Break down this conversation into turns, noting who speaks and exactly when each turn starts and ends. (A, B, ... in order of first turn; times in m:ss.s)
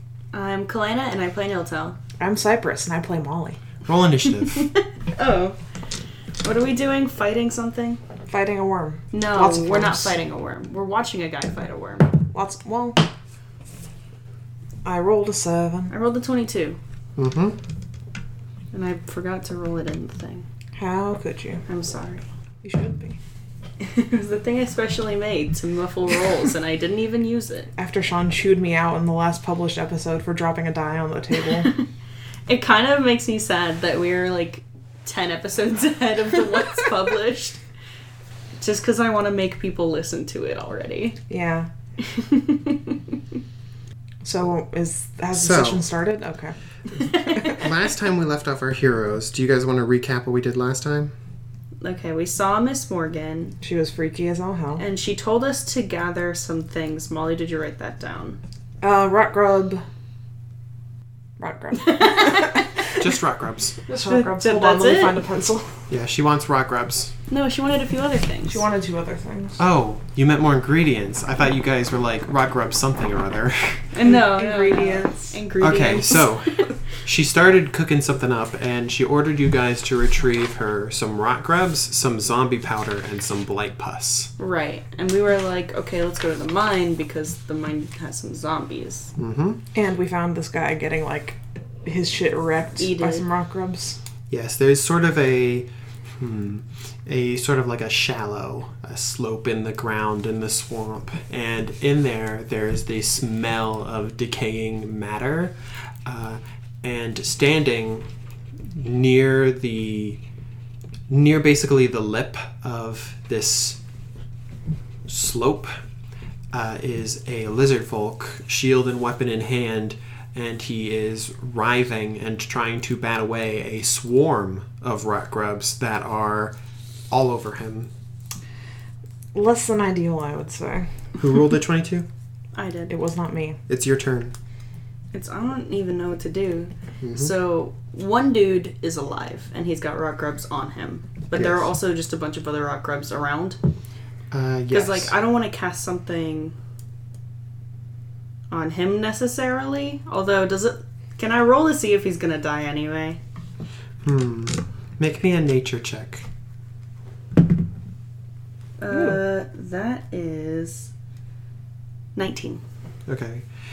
0:00.3-0:02.0 A
0:02.2-0:03.6 B
0:03.8-0:04.7 C
0:04.5-0:05.6 A
0:06.4-0:08.0 A
0:08.3-0:10.2 B
0:09.1-0:12.2 A
0:12.3-0:13.0 B
0:14.8-0:15.9 B
0:15.9-0:16.8 A
0:17.2-0:17.6 C
0:18.7-0:20.4 A
0:20.8-0:21.6 B
0:21.7-0:22.2 A
0:22.6-0:23.2 B
0:23.8-0:27.7 A
0:27.8-0:31.7 B
0:32.5-0:37.6 A
0:38.6-0:41.2 A
0:41.3-0:41.7 B
0:42.0-0:43.1 A
0:44.2-0:47.6 B
0:45.3-0:45.8 C
0:47.2-0:51.1 C
0:51.8-0:53.6 A
0:53.6-0:54.8 B
0:54.8-0:58.4 A
0:58.8-0:59.8 B
1:01.4-1:02.9 B
1:01.8-1:02.7 A
1:02.9-1:03.8 C
1:03.9-1:05.8 B
1:04.0-1:05.2 A
1:05.9-1:07.1 C
1:07.3-1:08.6 A
1:08.5-1:09.6 B
1:09.6-1:13.9 C
1:13.9-1:16.7 A
1:14.0-1:15.4 B
1:15.6-1:24.3 C
1:24.4-1:29.1 A
1:29.2-1:29.6 C
1:29.7-1:34.0 B
1:32.8-1:33.2 A
1:34.3-1:48.1 C
1:48.6-1:50.2 C
1:51.1-1:53.8 C
1:55.1-1:55.7 C
1:56.5-2:06.5 C
2:07.1-2:07.9 C
2:09.3-2:10.9 B
2:11.2-2:12.1 C
2:12.5-2:12.9 A
2:12.9-2:13.6 B
2:13.7-2:14.3 C
2:15.1-2:23.6 A
2:17.0-2:17.3 C
2:21.3-2:21.7 C
2:24.3-2:25.1 C
2:24.7-2:26.5 A
2:28.5-2:33.2 A
2:34.0-2:36.2 C
2:38.8-2:40.9 A
2:38.9-2:39.2 B
2:42.2-2:42.6 A
2:43.0-2:43.4 C